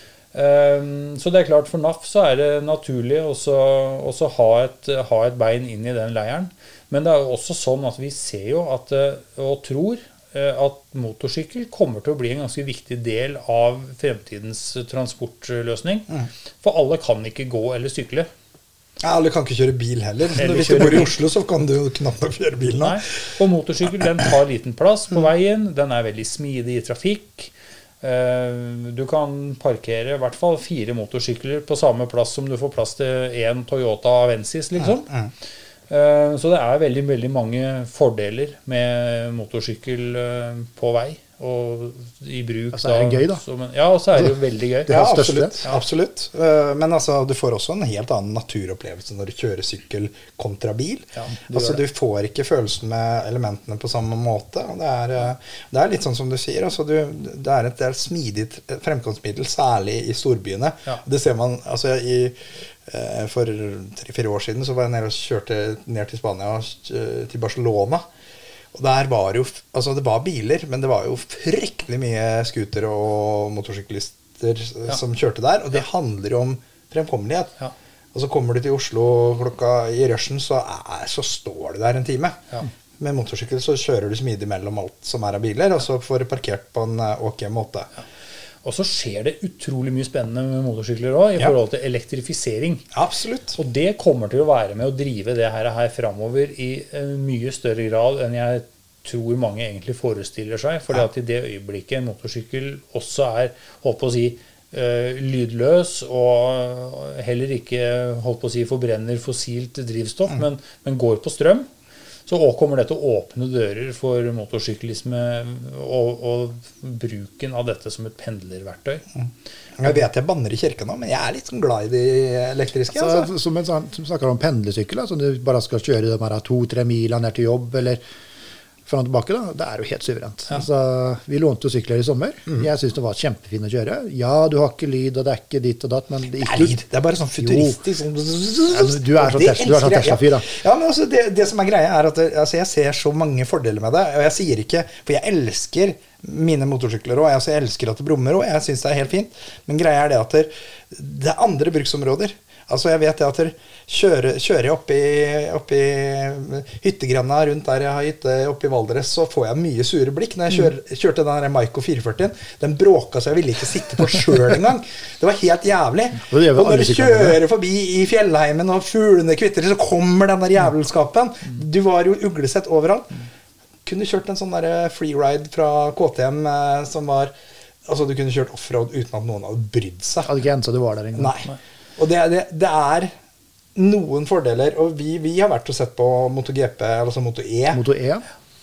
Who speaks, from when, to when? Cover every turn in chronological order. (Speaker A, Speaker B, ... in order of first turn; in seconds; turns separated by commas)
Speaker A: 0.3-16.1, Speaker A: 16.6-18.3, Speaker B: 19.0-23.0, Speaker A: 20.4-21.1, Speaker A: 22.8-35.1, Speaker B: 34.8-35.3, Speaker A: 35.9-45.0, Speaker C: 42.7-43.4, Speaker C: 44.9-45.5, Speaker B: 44.9-68.0, Speaker A: 51.1-51.8, Speaker B: 68.7-77.5, Speaker B: 78.1-82.4, Speaker B: 83.0-87.9, Speaker A: 88.6-92.9, Speaker B: 92.9-93.5, Speaker A: 93.5-111.7, Speaker A: 112.3-119.0, Speaker B: 119.8-123.3, Speaker C: 122.9-128.0, Speaker C: 128.8-136.8, Speaker B: 136.4-173.2, Speaker C: 137.4-137.8, Speaker C: 138.7-140.5, Speaker C: 166.2-167.4, Speaker B: 173.8-177.3, Speaker B: 177.8-180.3, Speaker C: 180.2-181.3, Speaker B: 181.2-183.1, Speaker B: 183.7-187.8, Speaker C: 187.7-188.2